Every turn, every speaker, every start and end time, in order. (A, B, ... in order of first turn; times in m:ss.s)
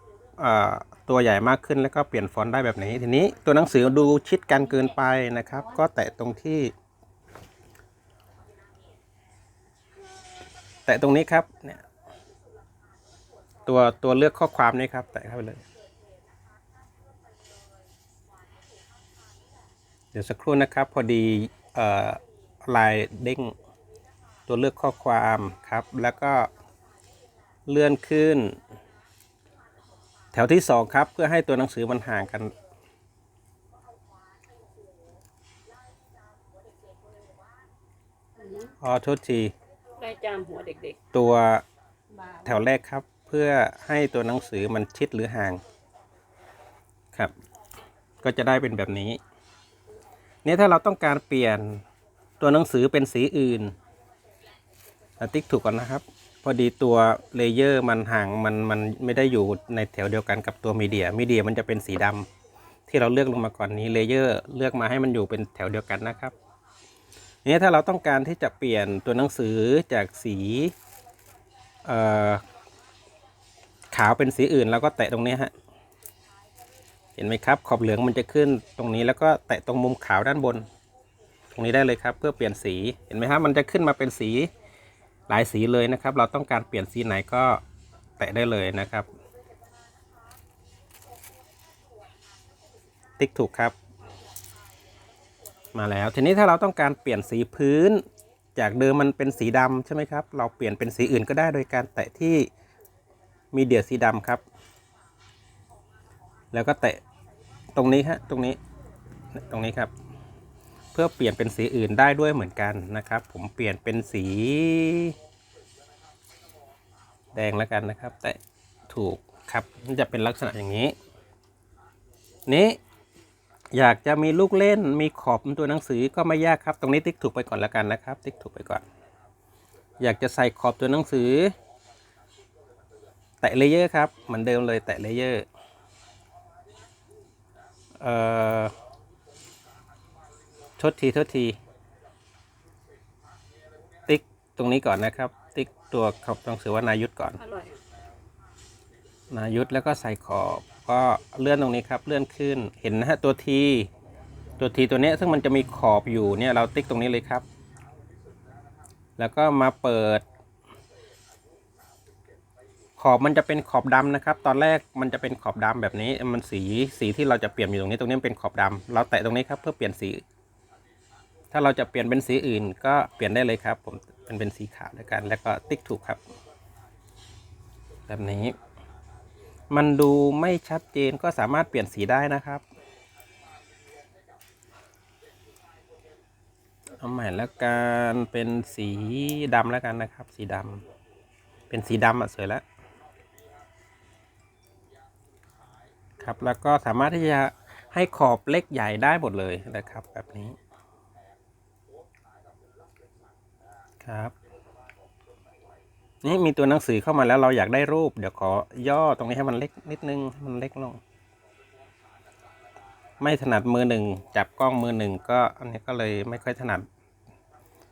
0:00.4-0:06.7 A
0:10.8-0:11.8 A
0:13.6-0:15.6 A
0:20.1-0:23.5 A
0:24.5-0:26.5 A
0:27.7-0:28.6 A
0:30.3-0:32.5 A
0:38.4-0:38.7 B
0:38.8-0:39.5 A
0:40.0-0:41.0 B
0:41.1-0:41.6 A
0:42.2-0:42.4 B
0:42.4-0:45.6 A
0:48.2-0:49.2 A
0:50.4-0:51.8 A
0:52.4-0:53.8 A
0:55.2-1:02.3 A
1:02.9-1:06.3 A
1:07.4-1:10.7 A
1:11.8-1:12.4 A
1:13.9-1:15.5 A
1:17.2-1:20.6 A
1:21.5-1:24.5 A
1:25.3-1:27.6 A
1:28.2-1:29.1 A
1:33.2-1:33.7 A
1:35.7-1:38.0 A
1:38.6-1:42.5 A
1:43.5-1:44.4 A
1:46.5-1:47.0 A
1:47.7-1:48.6 A
1:49.4-1:49.9 A
1:50.9-1:55.1 A
1:57.3-1:58.4 A
1:58.9-2:00.9 A
2:02.5-2:02.8 A
2:03.7-2:08.8 A
2:10.0-2:11.5 A
2:13.4-2:15.4 A
2:18.0-2:18.7 A
2:20.8-2:21.6 A
2:24.1-2:27.4 A
2:27.4-2:27.7 B
2:29.3-2:33.9 A
2:34.6-2:37.4 A
2:39.2-2:40.2 A
2:43.0-2:50.2 A
2:51.5-2:56.2 A
2:58.1-2:58.6 A
2:59.7-3:02.6 A
3:07.0-3:10.8 A
3:11.7-3:12.6 A
3:16.2-3:20.6 A
3:24.0-3:24.3 A
3:26.2-3:31.0 A
3:33.2-3:36.9 A